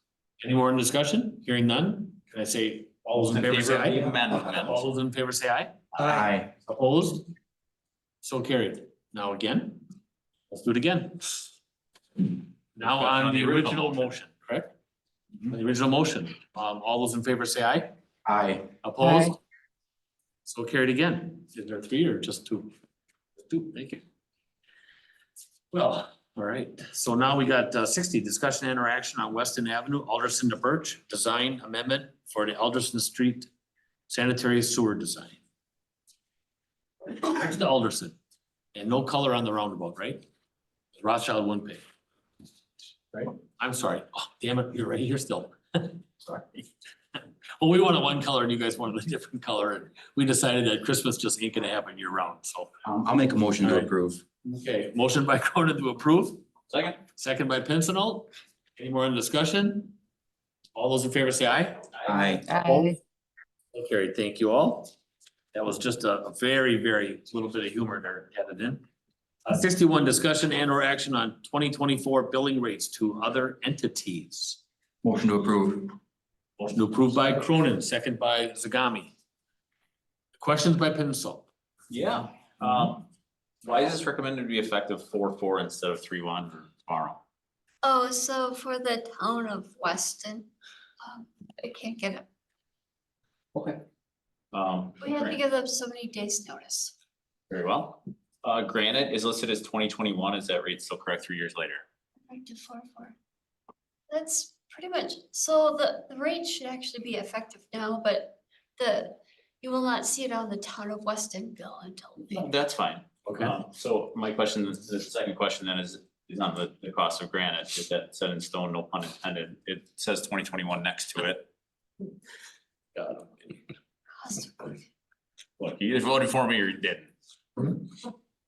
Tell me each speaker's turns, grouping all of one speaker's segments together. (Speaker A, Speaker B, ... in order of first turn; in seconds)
Speaker A: 0.4-5.8, 6.7-7.3, 8.2-9.8, 10.5-11.4, 12.2-14.7, 15.5-17.9, 18.8-19.4, 20.4-22.7, 23.4-24.0, 25.7-33.5, 34.1-35.4, 37.1-38.1, 38.7-40.2, 41.0-41.8, 43.3-46.1, 47.6-52.7, 53.6-53.9, 54.4-56.4, 57.1-60.0, 60.7-61.9, 62.5-63.0, 63.7-64.9, 65.5-68.8, 69.4-74.6, 76.7-79.1, 80.4-81.5, 113.2-113.5
Speaker B: 3.3-4.2, 5.9-6.5, 18.2-18.7, 52.8-54.2, 62.0-62.5, 75.0-76.0
Speaker C: 3.6-4.7, 12.8-14.1, 56.7-57.0, 81.9-83.0, 83.6-87.2, 93.5-93.8, 94.5-95.4, 97.5-101.8, 112.3-121.5, 123.0-123.6, 125.6-127.8
Speaker D: 87.8-90.5, 91.0-92.3, 95.0-96.9, 102.3-103.2, 104.1-112.5, 124.2-124.7